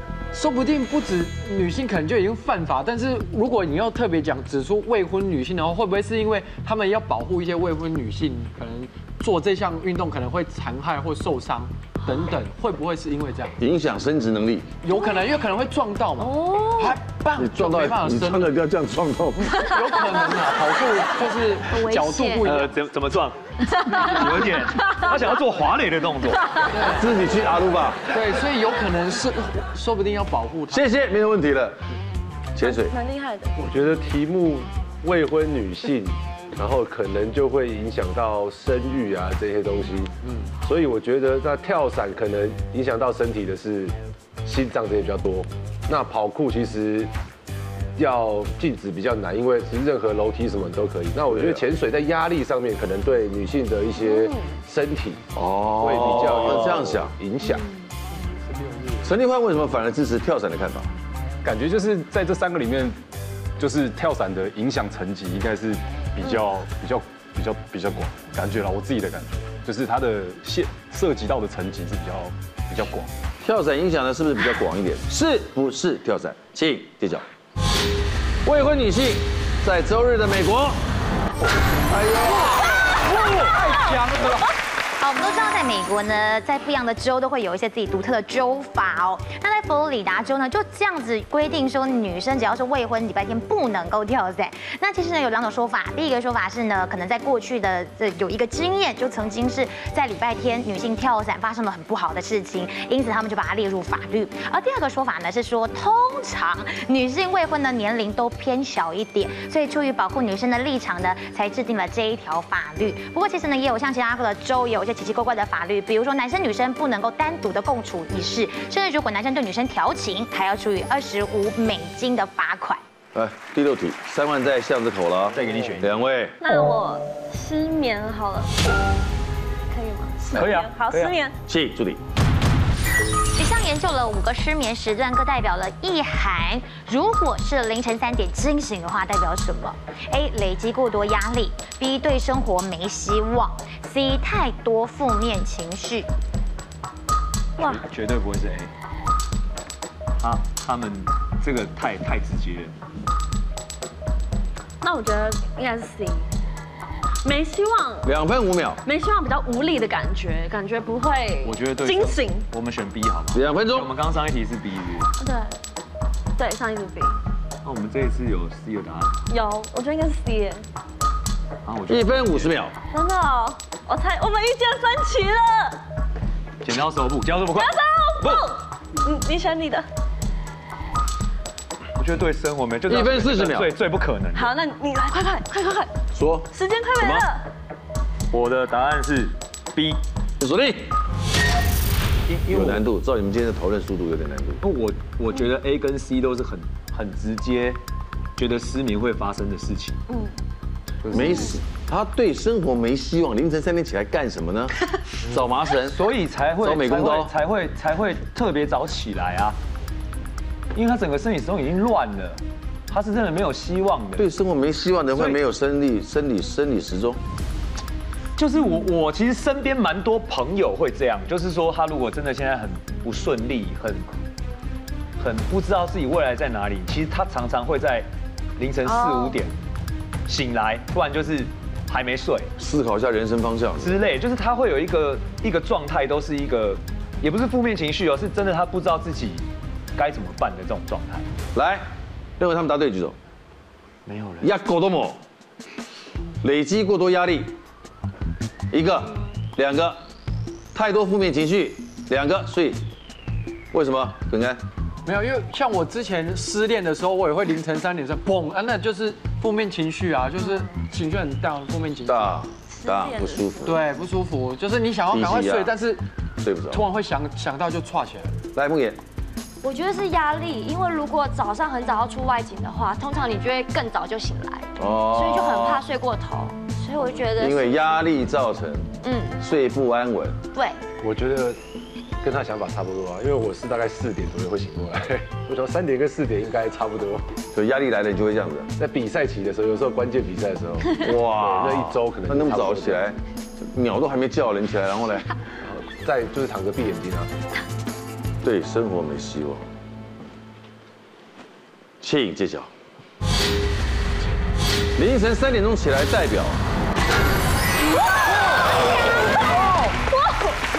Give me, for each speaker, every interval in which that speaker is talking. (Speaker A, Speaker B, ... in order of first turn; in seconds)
Speaker A: 0.3-13.6, 14.8-18.5, 19.6-22.7, 26.7-27.2, 28.1-30.9, 83.0-84.4, 255.1-262.4, 263.6-266.1, 266.7-268.4
Speaker B: 13.6-14.7, 17.4-19.7, 26.9-28.0, 30.7-31.8, 32.5-33.0, 51.3-51.6, 55.3-57.2, 59.0-60.9, 73.4-77.2, 78.5-80.8, 81.9-83.1, 123.1-126.4, 131.5-132.0, 158.0-158.8, 163.3-163.9, 171.9-172.8, 182.9-183.7, 186.1-187.3, 190.4-190.9, 192.5-194.6, 201.1-206.0, 206.6-207.3, 214.2-217.2, 232.6-234.0, 241.5-241.9, 242.4-243.2, 244.4-245.2, 246.4-247.6, 248.7-250.0, 250.7-252.8, 253.7-254.6, 262.1-263.8, 265.1-265.7, 266.4-266.9, 268.5-269.0, 274.8-275.9, 277.4-280.4, 287.5-288.7, 290.9-295.3, 298.4-299.7, 302.0-302.7, 305.0-306.6
Speaker C: 16.2-17.0, 32.6-33.6, 54.0-54.6, 82.9-84.0, 126.4-128.5, 129.7-131.4, 154.8-156.3, 157.2-158.1, 158.8-162.5, 165.2-165.5, 166.4-167.2, 169.3-170.7, 172.9-175.8, 177.6-179.9, 184.3-185.9, 186.5-187.4, 262.8-263.6, 309.9-310.6
Speaker D: 21.7-22.5, 269.6-277.9, 279.0-279.4
Speaker E: 22.4-26.7, 56.0-56.8, 125.3-126.0, 130.3-131.2, 147.6-148.7, 150.2-152.8, 161.4-165.1, 167.6-169.2, 171.7-172.6, 176.6-178.5, 182.0-184.5, 188.3-190.0, 192.3-192.8, 194.6-197.8, 198.4-200.0, 205.9-209.6, 210.8-214.3, 215.1-215.4, 218.4-224.2, 225.2-229.6, 230.3-232.5, 233.8-241.3, 244.1-244.5
Speaker F: 33.6-47.1, 48.0-57.7, 58.6-58.9, 281.0-281.6, 282.2-287.3, 288.8-293.1, 295.6-297.3
Speaker G: 61.4-63.0, 63.6-73.1
Speaker H: 85.0-122.8, 133.4-146.1